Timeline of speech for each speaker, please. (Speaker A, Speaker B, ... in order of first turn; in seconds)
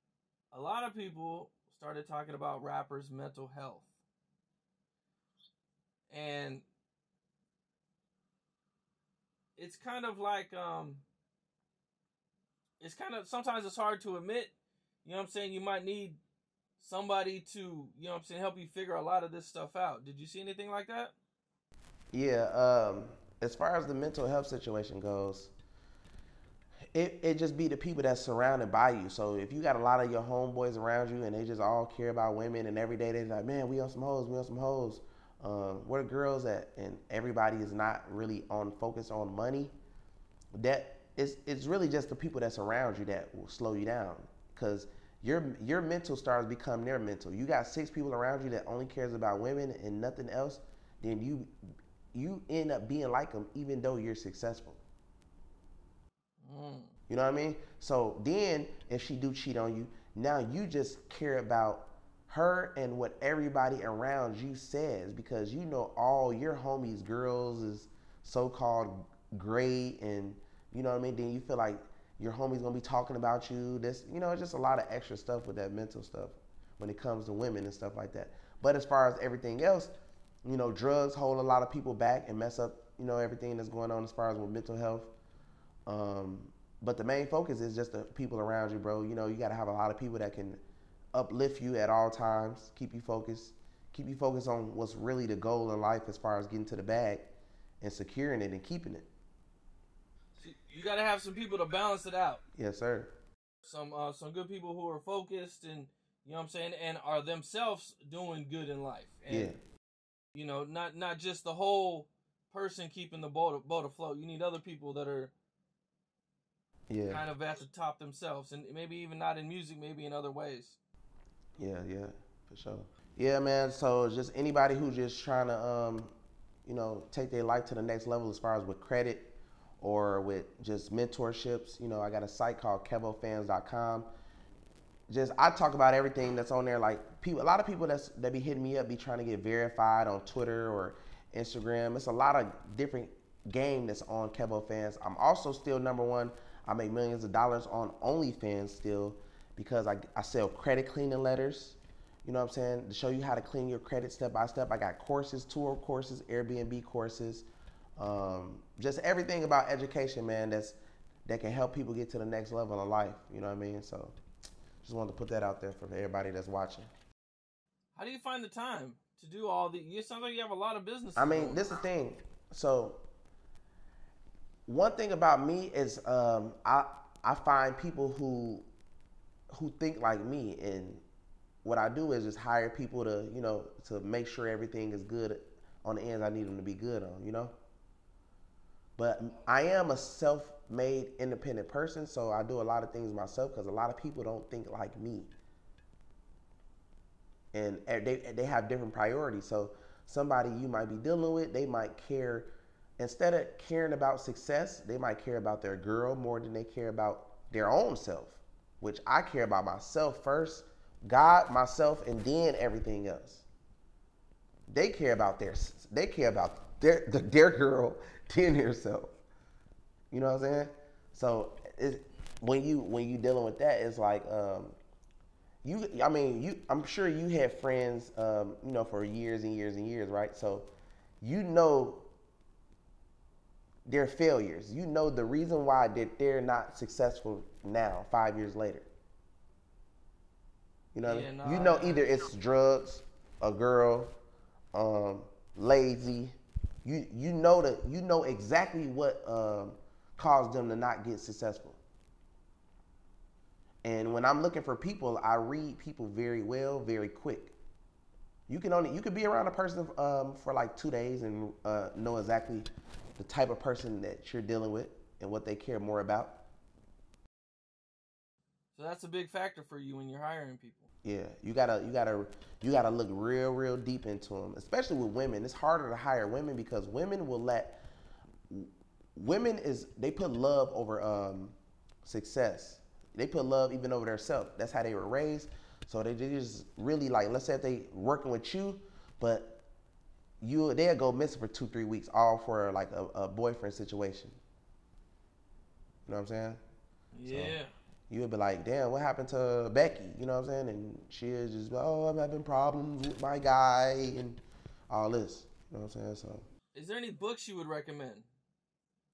Speaker A: 0.5-3.9, 6.1-6.7, 9.6-11.0, 12.8-16.2, 16.8-21.1, 56.4-56.9, 100.4-102.4, 103.6-109.5, 110.3-115.3, 117.0-120.8, 167.9-171.7, 241.0-242.3, 268.7-270.9, 297.1-297.7, 306.7-308.3
Speaker B: 22.1-25.5, 26.9-39.7, 40.5-51.5, 52.1-54.8, 57.1-79.9, 80.4-85.1, 85.9-90.6, 91.1-97.3, 97.8-99.1, 102.5-103.1, 109.3-109.6, 116.9-117.2, 121.6-126.1, 126.7-134.1, 135.1-164.2, 164.8-166.9, 171.2-173.0, 174.7-178.7, 179.5-181.0, 181.6-187.5, 189.0-195.3, 197.5-213.5, 214.7-219.2, 220.1-224.8, 225.6-230.7, 231.2-232.1, 233.9-238.9, 240.9-244.1, 244.7-251.8, 253.8-257.6, 258.5-266.4, 271.0-277.8, 278.5-289.6, 290.4-294.4, 296.1-296.6, 297.2-297.6, 298.1-306.4